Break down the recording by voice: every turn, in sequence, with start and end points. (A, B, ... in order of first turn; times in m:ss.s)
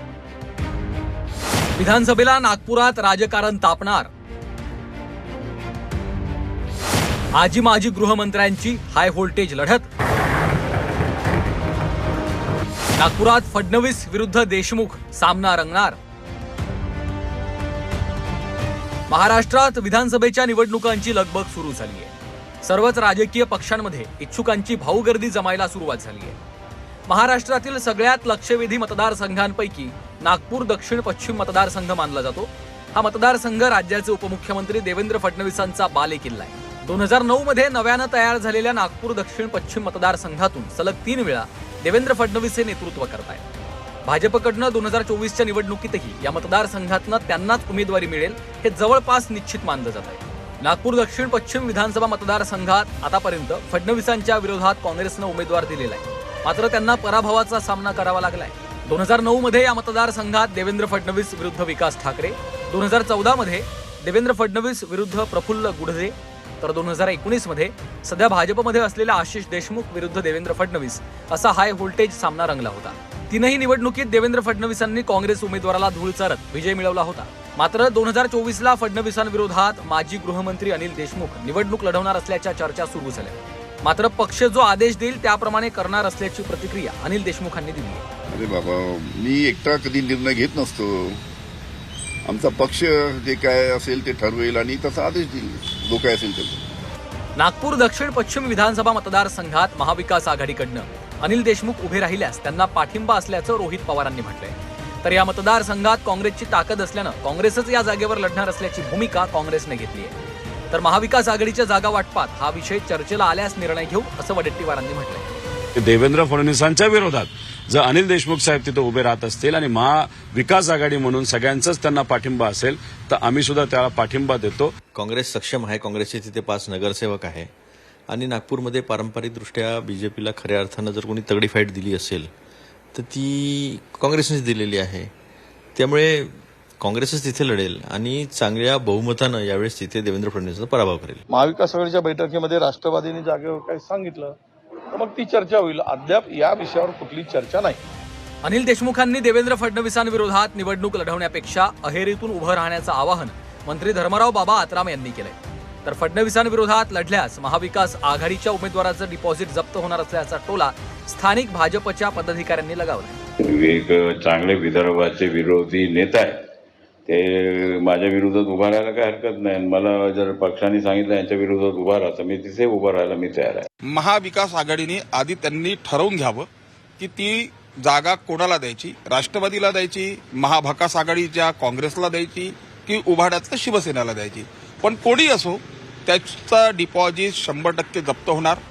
0:01.8-0:04.1 A
0:07.4-0:09.9 A
0:13.0-0:16.0 A
0:19.1-0:26.4 A
0:27.1-0:43.4 A
0:44.0-1:28.0 A
1:28.3-1:31.2 B
1:32.3-1:36.6 B
1:37.4-1:50.2 A
1:50.7-1:55.3 A
1:55.8-2:04.7 C
2:04.9-2:07.5 D
2:08.1-2:12.3 D
2:12.9-2:15.1 D
2:15.8-2:21.2 D
2:21.3-2:24.3 E
2:24.9-2:27.8 E
2:28.4-2:43.2 A
2:43.4-2:46.4 F
2:47.1-2:53.7 F
2:53.9-2:56.5 G
2:57.0-3:08.6 G